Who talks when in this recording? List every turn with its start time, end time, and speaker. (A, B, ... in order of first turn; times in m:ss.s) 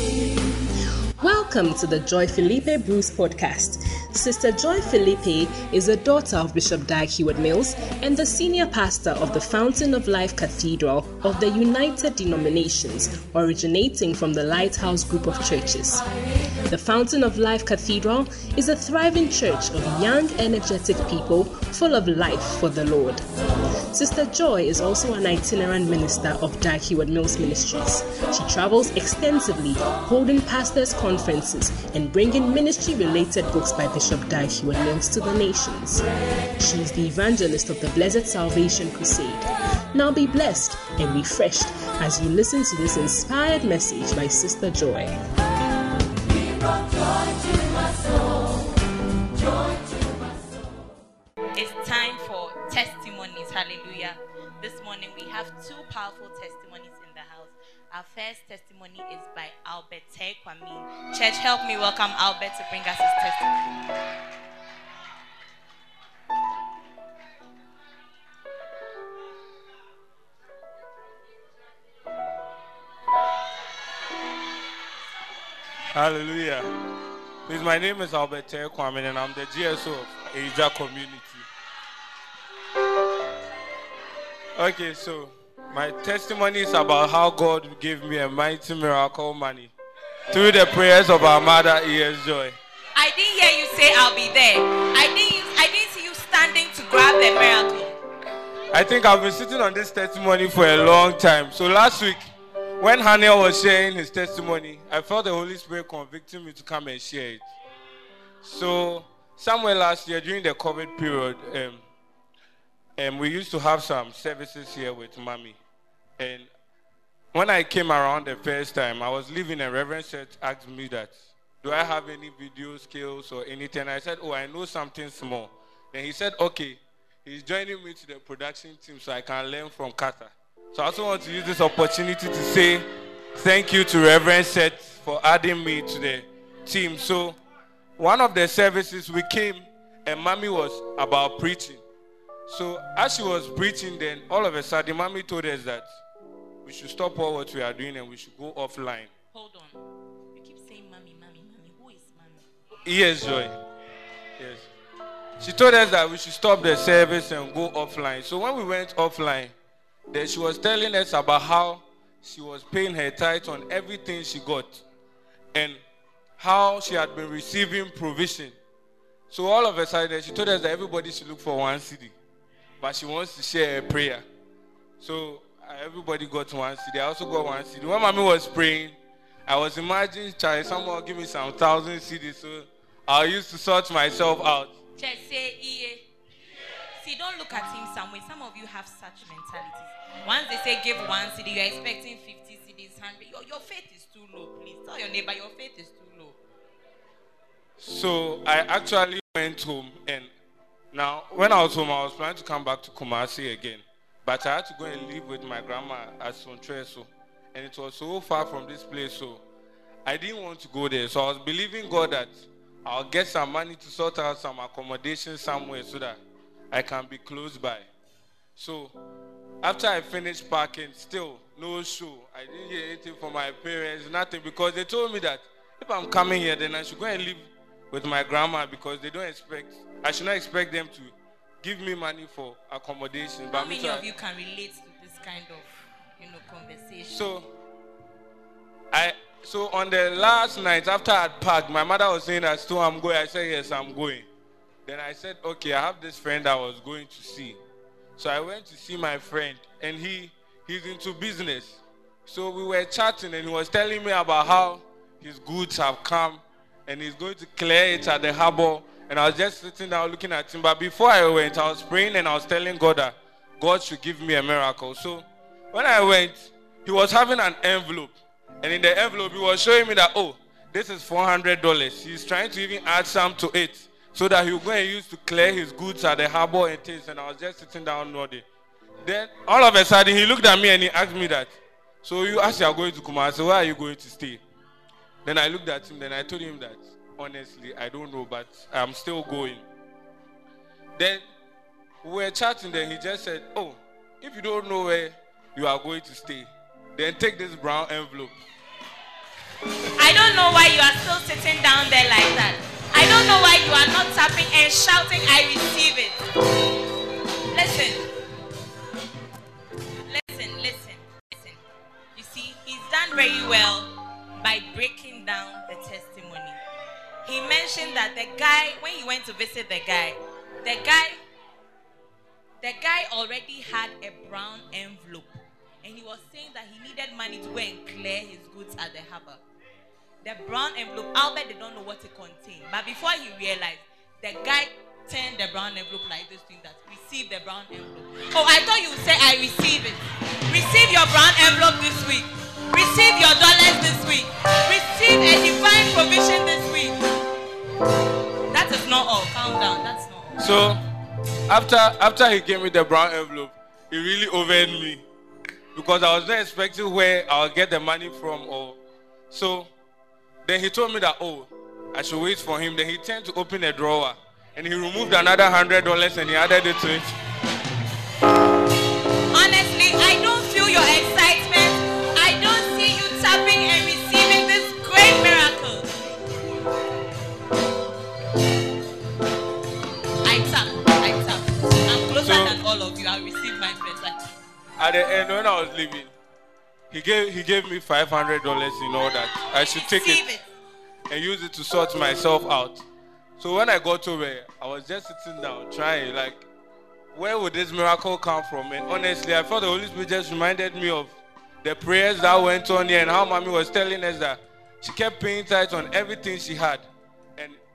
0:01.2-0:16.0 A
0:16.7-0:23.2 A
0:23.9-0:36.1 A
0:36.6-0:45.2 A
0:51.6-1:03.6 B
1:15.9-1:16.7 C
1:17.5-1:21.4 C
1:24.6-1:29.7 C
1:30.3-1:32.6 C
1:33.0-1:38.0 B
1:38.7-1:42.2 C
1:42.8-1:47.4 C
1:48.4-1:51.8 C
1:53.0-1:55.6 C
1:56.2-1:56.5 C
1:57.3-2:12.8 C
2:13.4-2:17.4 C
2:18.0-2:21.8 C
2:22.5-2:25.9 C
2:26.6-2:29.1 C
2:29.3-2:29.8 B
2:30.3-2:32.4 B
2:32.8-2:33.5 C
2:34.4-2:34.7 C
2:35.4-2:39.5 C
2:40.1-2:44.8 C
2:45.5-2:45.8 C
2:46.4-2:48.6 C
2:49.3-2:52.1 C
2:52.8-2:54.2 C
2:55.0-3:04.7 C
3:05.0-3:06.0 B
3:07.0-3:16.4 B
3:17.8-3:20.3 C
3:20.9-3:29.4 C
3:30.0-3:36.2 C
3:36.7-3:37.9 C
3:38.6-3:38.9 C
3:39.6-3:54.0 C
3:53.5-3:57.2 B
3:57.1-3:57.5 C
3:58.9-4:04.3 C
4:04.9-4:07.6 C
4:08.2-4:38.4 C
4:39.0-4:44.4 C
4:45.2-4:49.6 C
4:51.0-4:51.2 C
4:52.0-4:58.4 C
5:00.0-5:06.2 B
5:07.5-5:08.1 B
5:10.1-5:11.6 B
5:12.2-5:16.6 B
5:17.2-5:21.2 B
5:22.6-5:29.4 B
5:30.2-5:47.0 B
5:48.5-5:50.5 B
5:50.4-5:50.8 C
5:51.5-5:55.0 C
5:55.8-5:58.8 C
5:59.3-5:59.7 C
6:00.4-6:07.1 C
6:09.3-6:15.9 B
6:20.2-6:24.3 B
6:22.2-6:22.6 C
6:24.8-6:26.1 C
6:26.9-6:30.2 C
6:29.6-6:30.5 B
6:31.1-6:32.8 C
6:33.4-6:36.4 C
6:37.1-6:46.8 C